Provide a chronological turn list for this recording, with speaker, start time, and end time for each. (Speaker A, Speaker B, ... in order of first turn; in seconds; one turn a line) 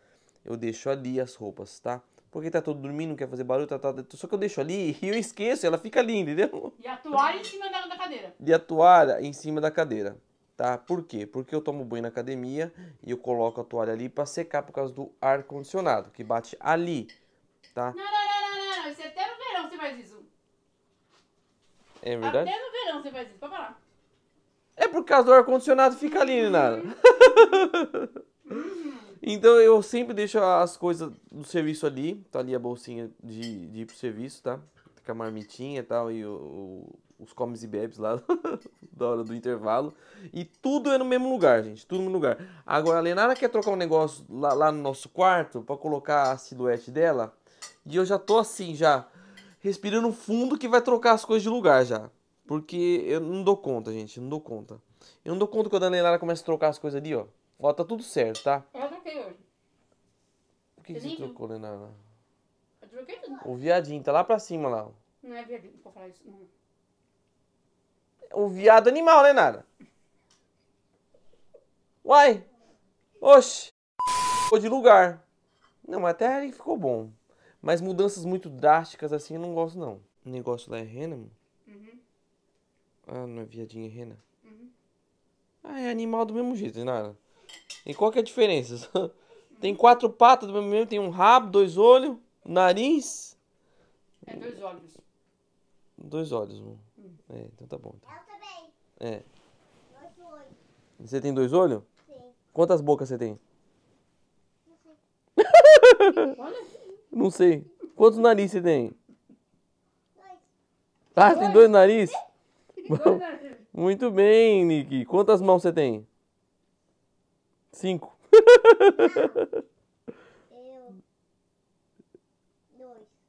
Speaker A: 0.5-6.7
Speaker B: 6.8-8.3
Speaker A: 8.4-17.1
Speaker B: 17.9-20.3
Speaker A: 22.0-22.5
Speaker B: 22.2-23.8
Speaker A: 24.8-28.2
Speaker B: 26.0-27.0
Speaker B: 28.5-29.1
Speaker A: 29.2-49.1
Speaker A: 49.6-58.7
Speaker B: 58.7-59.4
Speaker A: 60.8-62.0
Speaker B: 60.9-61.4
Speaker B: 62.8-63.4
Speaker A: 63.4-65.0
Speaker B: 65.2-66.5
Speaker A: 68.3-69.7
Speaker A: 72.0-72.5
Speaker A: 73.2-73.7
Speaker A: 74.5-75.2
Speaker A: 75.8-81.3
Speaker B: 81.7-82.0
Speaker A: 83.1-84.2
Speaker B: 84.4-84.7
Speaker A: 85.6-87.2
Speaker A: 87.8-93.4
Speaker B: 89.5-90.0
Speaker B: 94.2-95.0
Speaker A: 96.0-98.1
Speaker C: 98.1-98.7
Speaker A: 99.0-99.3
Speaker C: 99.9-100.6
Speaker A: 101.0-101.9
Speaker C: 102.1-102.4
Speaker A: 102.5-103.4
Speaker C: 104.7-105.0
Speaker A: 105.4-106.3
Speaker B: 106.2-106.8
Speaker A: 107.1-109.0
Speaker C: 110.2-110.5
Speaker A: 111.2-112.2
Speaker B: 111.2-111.7
Speaker B: 112.8-113.7
Speaker A: 112.9-116.1
Speaker A: 117.7-119.6
Speaker C: 119.0-119.3
Speaker C: 120.5-121.0
Speaker C: 122.7-123.1